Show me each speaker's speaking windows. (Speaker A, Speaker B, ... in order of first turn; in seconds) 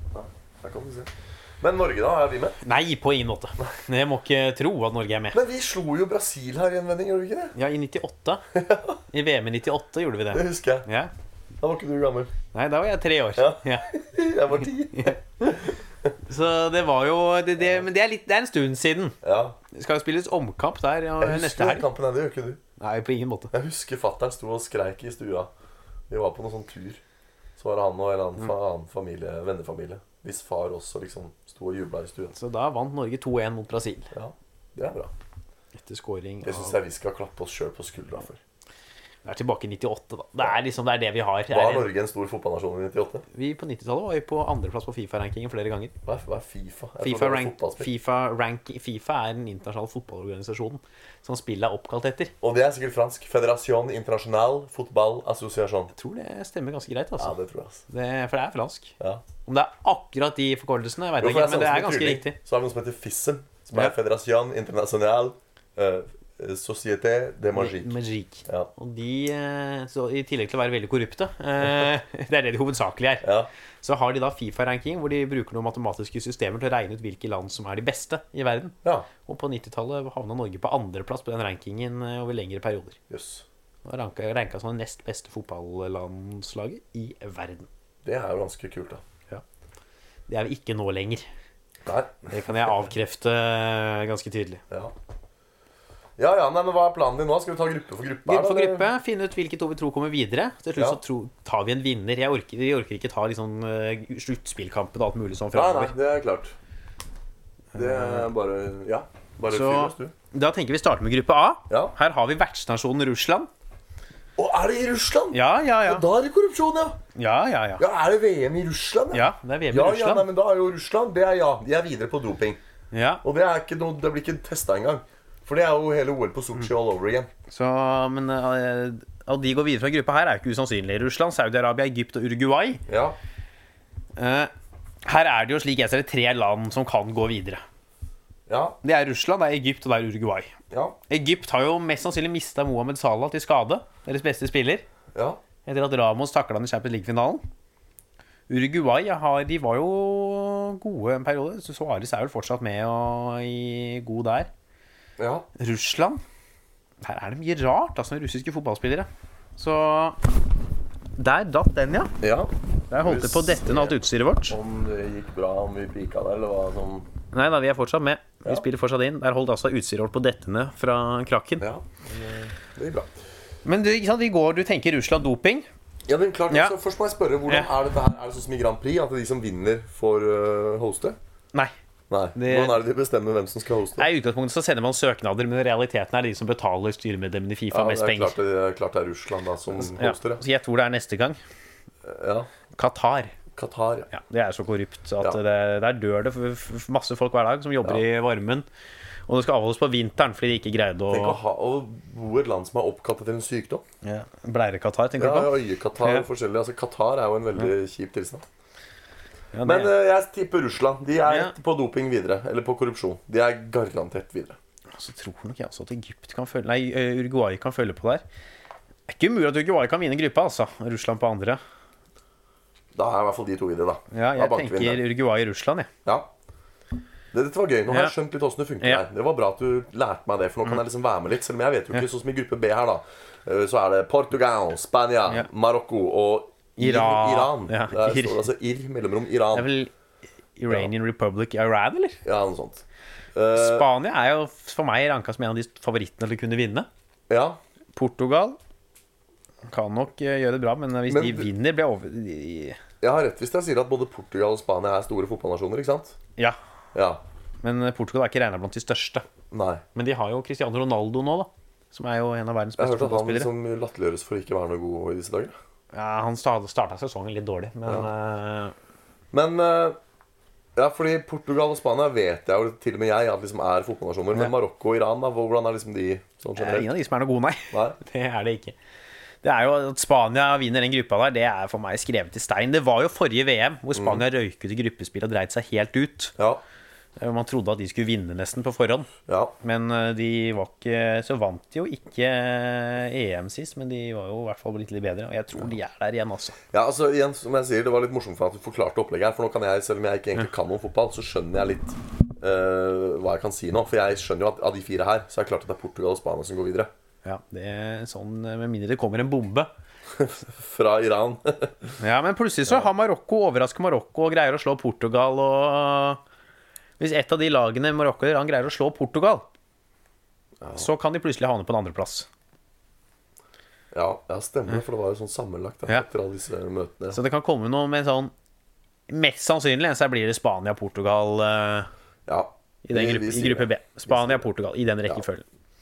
Speaker A: 0.1-2.6, 5.3-7.5, 8.5-9.0, 10.3-10.9, 11.6-12.3, 13.4-16.1, 19.2-19.6, 21.2-22.6, 23.5-25.5, 26.1-27.0, 27.6-32.3, 34.1-35.1, 36.4-38.4, 41.5-43.2, 46.0-47.9, 52.4-55.9, 57.2-57.8, 61.2-67.9, 73.2-73.5, 78.8-79.1, 83.1-83.4, 88.0-89.0, 91.8-92.3, 96.2-98.9, 105.5-106.5, 107.7-110.1, 114.4-117.0, 117.8-122.6, 123.2-127.3, 132.9-133.2, 138.5-138.8, 140.7-140.9, 145.1-145.4, 155.2-155.4, 162.2-167.1, 171.6-173.1, 176.1-181.2, 182.1-184.1, 187.7-190.4, 192.0-192.5, 193.5-194.1, 201.1-203.8, 205.2-208.4, 209.6-214.6, 222.9-225.0, 226.0-226.3, 227.3-239.7, 242.2-242.8, 243.3-243.9, 247.3-247.6, 251.1-251.5, 253.0-256.1, 256.9-257.2, 259.5-259.8, 262.8-265.5, 269.3-270.0, 270.8-276.9, 277.7-278.0, 283.9-284.2, 289.3-289.5, 296.7-306.9, 310.1-311.9, 320.6-320.9, 323.9-327.2, 332.3-334.5
Speaker B: 2.6-5.4, 7.5-8.4, 9.1-11.1, 12.5-13.9, 14.9-15.5, 16.2-19.2, 19.7-21.9, 22.8-23.5, 32.3-34.1, 35.8-36.8, 39.2-41.9, 43.3-45.9, 47.0-52.3, 55.9-58.9, 59.5-62.4, 67.5-73.3, 73.8-83.0, 83.8-87.7, 90.3-91.2, 92.3-94.6, 98.2-105.9, 107.7-108.3, 109.5-113.5, 115.3-116.0, 117.2-117.8, 119.1-120.3, 122.9-123.2, 127.5-132.8, 134.2-134.5, 135.0-137.6, 138.8-140.5, 141.1-144.8, 145.6-147.4, 148.5-154.5, 155.6-156.2, 157.0-160.2, 161.2-162.1, 162.9-164.6, 167.3-171.6, 173.6-175.7, 176.5-176.7, 182.3-182.8, 184.0-188.4, 189.8-191.4, 192.7-193.3, 194.1-198.7, 199.3-201.4, 204.0-206.3, 209.5-209.9, 211.2-211.5, 214.9-218.2, 219.1-221.6, 224.1-225.9, 227.9-228.1, 236.8-238.4, 239.5-239.9, 240.6-242.2, 243.5-246.9, 247.9-248.6, 249.7-252.8, 257.6-259.2, 259.9-263.5, 265.9-268.7, 276.6-278.8, 279.4-286.3, 287.2-289.1, 289.6-296.6, 307.2-309.7, 312.0-316.2, 317.0-319.4, 320.8-322.3, 327.1-328.3, 329.1-331.9, 332.8-335.4